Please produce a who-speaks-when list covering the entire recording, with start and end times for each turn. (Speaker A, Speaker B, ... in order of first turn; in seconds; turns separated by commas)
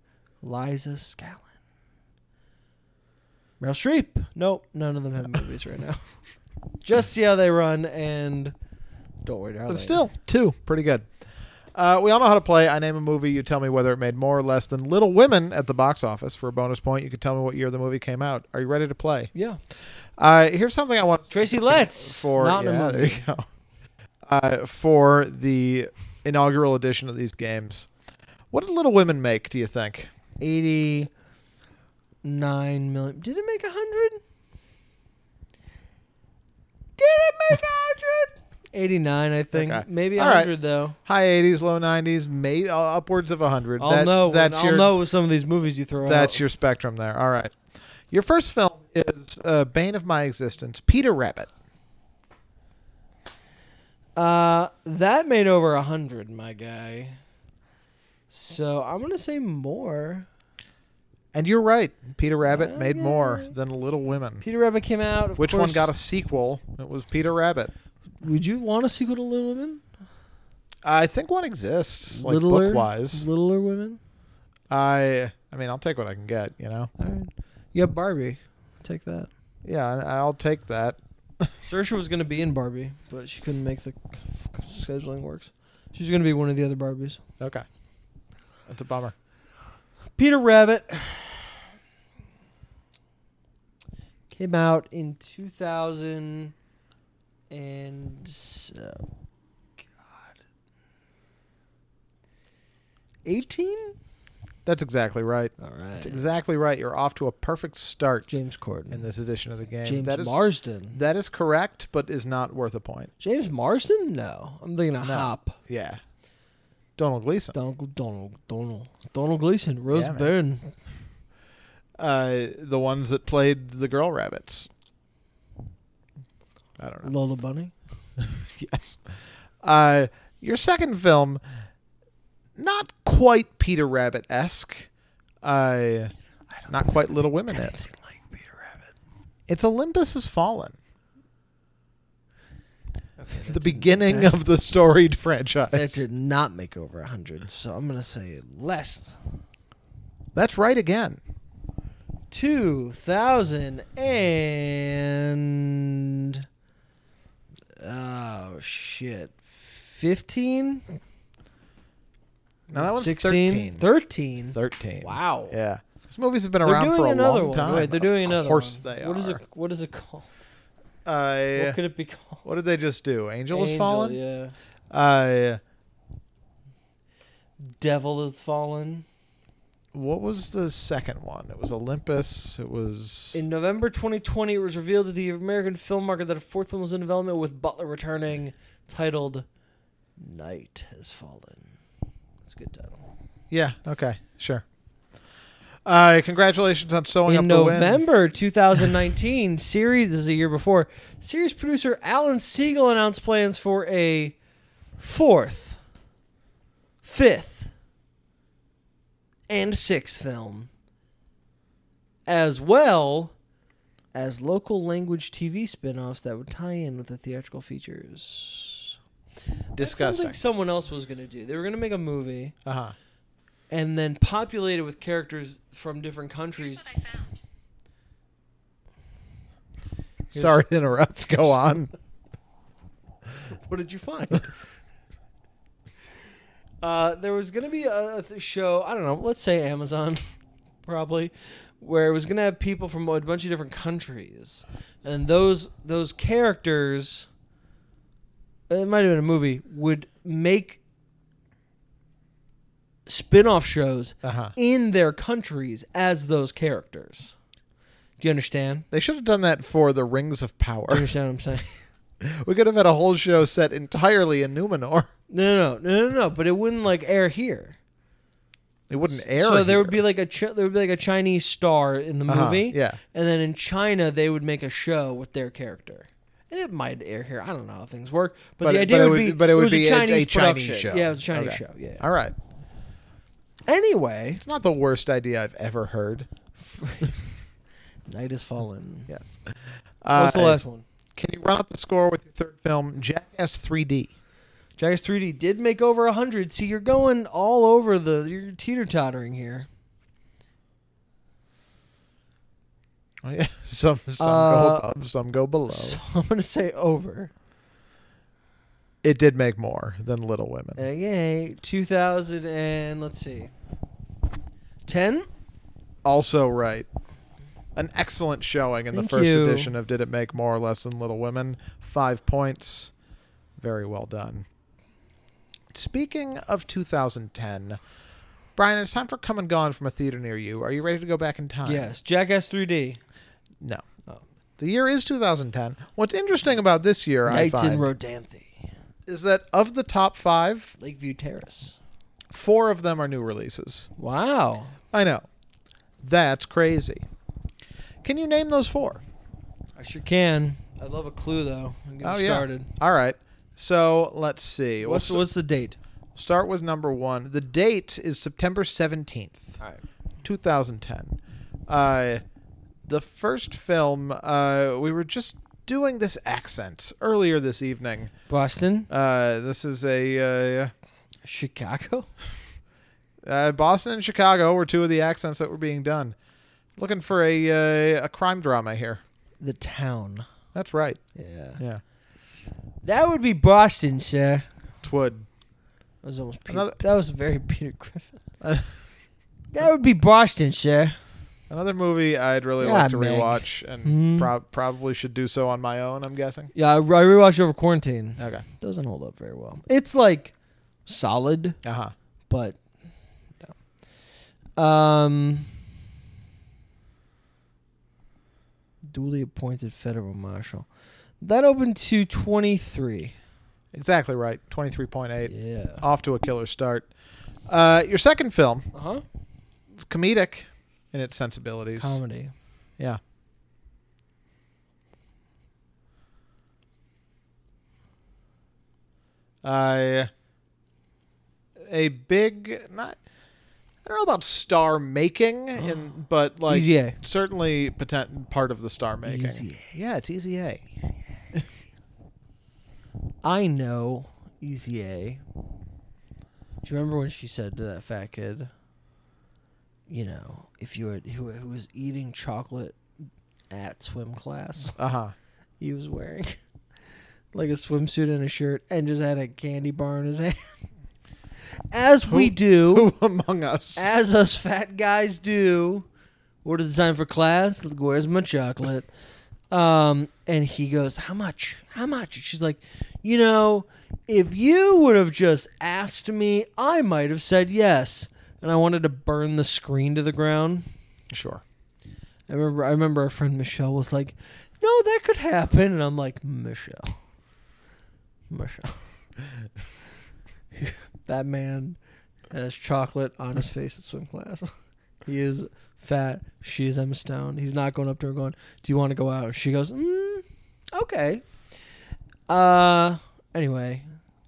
Speaker A: 0.4-1.5, Speaker A: 3.6-6.0, Speaker A: 6.8-8.5, Speaker A: 9.2-10.1, Speaker B: 9.7-11.1, Speaker B: 11.7-19.3, Speaker A: 19.3-19.6, Speaker B: 20.2-23.4, Speaker A: 21.3-23.2, Speaker B: 24.2-27.9, Speaker B: 28.5-30.1, Speaker A: 30.4-31.1, Speaker A: 32.2-34.2, Speaker A: 37.0-41.0, Speaker B: 39.5-40.5, Speaker B: 41.0-44.9, Speaker A: 43.8-46.4, Speaker B: 46.0-47.5, Speaker B: 48.1-51.5, Speaker A: 54.1-57.2, Speaker A: 58.3-60.3, Speaker B: 61.3-64.4, Speaker A: 62.5-63.5, Speaker A: 64.4-65.9, Speaker B: 65.4-67.7, Speaker A: 68.2-69.8, Speaker B: 70.8-73.3, Speaker A: 72.1-74.0, Speaker B: 74.7-76.9, Speaker A: 77.0-79.3, Speaker B: 79.6-81.5, Speaker A: 81.6-87.2, Speaker B: 87.4-87.6, Speaker B: 88.7-89.1, Speaker A: 90.2-91.6, Speaker A: 94.3-96.5, Speaker A: 97.5-99.1, Speaker A: 100.0-100.3, Speaker A: 103.2-104.0, Speaker B: 104.7-108.3, Speaker A: 105.6-106.2, Speaker A: 108.3-109.0, Speaker B: 108.9-110.4, Speaker A: 109.8-111.0, Speaker B: 110.9-113.1, Speaker A: 113.2-115.6, Speaker B: 115.0-116.0, Speaker B: 117.0-117.5, Speaker A: 117.5-120.7, Speaker B: 119.9-120.3, Speaker B: 122.0-124.7, Speaker B: 126.8-127.1, Speaker A: 127.0-127.7, Speaker B: 128.2-131.4, Speaker B: 132.6-134.9, Speaker B: 135.4-136.1, Speaker A: 136.5-138.9, Speaker B: 136.7-137.8, Speaker B: 139.5-140.8, Speaker A: 143.2-144.4, Speaker B: 143.4-146.0, Speaker A: 145.7-149.2, Speaker B: 150.3-151.2, Speaker A: 152.3-156.4, Speaker A: 157.8-160.8, Speaker B: 162.7-163.8, Speaker A: 162.7-165.6, Speaker B: 164.5-169.4, Speaker A: 166.6-170.3, Speaker B: 171.0-171.8, Speaker A: 171.5-172.4, Speaker B: 172.4-174.2, Speaker A: 173.5-174.5, Speaker B: 174.9-175.6, Speaker A: 177.6-179.1, Speaker B: 179.9-183.4, Speaker A: 183.3-189.4, Speaker A: 190.2-191.7, Speaker A: 192.4-193.0, Speaker B: 193.5-194.6, Speaker B: 195.8-198.0, Speaker A: 197.2-204.3, Speaker A: 205.0-205.8, Speaker A: 207.0-207.7, Speaker A: 209.5-210.7, Speaker A: 212.3-213.3, Speaker A: 214.1-219.0, Speaker B: 219.8-220.4, Speaker A: 219.8-222.5, Speaker B: 222.6-222.9, Speaker A: 223.7-227.3, Speaker A: 230.3-230.6, Speaker B: 230.3-231.9, Speaker A: 233.5-234.5, Speaker A: 236.8-240.2, Speaker A: 240.8-247.3, Speaker A: 248.7-250.8, Speaker A: 253.1-257.3, Speaker B: 254.2-254.5, Speaker A: 258.2-258.9, Speaker B: 258.9-261.1, Speaker A: 260.9-261.8, Speaker B: 262.2-265.1, Speaker A: 265.3-267.8, Speaker B: 268.9-270.0, Speaker A: 269.1-282.0, Speaker B: 272.3-273.0, Speaker B: 278.6-282.3, Speaker A: 283.7-284.4, Speaker B: 284.4-286.3, Speaker A: 286.6-287.3, Speaker A: 288.1-289.1, Speaker B: 289.1-290.6, Speaker A: 290.1-290.8, Speaker B: 291.1-294.1, Speaker A: 294.8-299.7, Speaker B: 303.2-306.0, Speaker A: 304.2-304.9, Speaker A: 305.7-307.3, Speaker B: 309.0-310.8, Speaker A: 310.8-313.5, Speaker A: 314.9-315.3, Speaker B: 316.0-316.9, Speaker B: 317.7-322.9, Speaker A: 318.9-319.7, Speaker B: 323.6-324.4, Speaker B: 325.7-327.8, Speaker B: 328.6-331.9, Speaker A: 331.6-333.0, Speaker B: 334.6-337.9, Speaker A: 337.2-338.6, Speaker B: 339.1-340.8, Speaker A: 340.8-341.8, Speaker B: 342.3-343.9, Speaker A: 344.0-344.8, Speaker B: 344.9-345.2, Speaker B: 346.0-347.0, Speaker B: 348.0-349.0, Speaker A: 349.8-352.7, Speaker B: 352.0-355.2, Speaker A: 354.8-355.8, Speaker B: 356.1-359.6, Speaker B: 360.2-362.2, Speaker B: 362.9-368.1, Speaker A: 368.3-368.9, Speaker B: 368.9-370.7, Speaker A: 371.2-372.1, Speaker B: 373.2-376.1, Speaker B: 376.8-379.0, Speaker A: 379.4-380.3, Speaker B: 380.5-381.0, Speaker A: 381.1-381.6, Speaker A: 382.8-384.5, Speaker B: 384.8-385.2, Speaker A: 386.0-388.2, Speaker B: 386.5-386.8, Speaker B: 388.4-388.8, Speaker A: 389.5-391.0, Speaker B: 391.5-396.5, Speaker A: 392.6-394.3, Speaker A: 396.5-400.3, Speaker B: 398.2-398.4, Speaker A: 400.9-401.6, Speaker B: 401.6-401.9, Speaker A: 402.3-402.6, Speaker A: 404.6-405.5, Speaker A: 408.9-410.7, Speaker A: 411.2-413.1, Speaker B: 413.7-416.9, Speaker A: 415.3-415.8, Speaker B: 417.5-418.7, Speaker A: 418.7-419.0, Speaker B: 419.7-422.0, Speaker A: 421.8-422.3, Speaker B: 429.4-430.1, Speaker B: 431.6-433.0, Speaker B: 433.8-440.7, Speaker A: 435.6-435.9, Speaker A: 436.5-437.0, Speaker A: 439.0-439.7, Speaker A: 443.2-445.2, Speaker A: 446.6-448.5, Speaker A: 449.9-452.8, Speaker A: 453.5-454.8, Speaker B: 454.7-455.1, Speaker A: 455.6-456.4, Speaker A: 457.3-460.6, Speaker A: 461.7-462.9, Speaker B: 462.1-463.9, Speaker A: 463.8-465.9, Speaker A: 466.4-468.9, Speaker A: 469.5-480.7, Speaker B: 481.1-481.4, Speaker A: 482.3-487.0, Speaker A: 488.3-488.8, Speaker A: 490.6-491.8, Speaker A: 492.3-494.5, Speaker A: 495.1-501.2, Speaker A: 502.3-503.9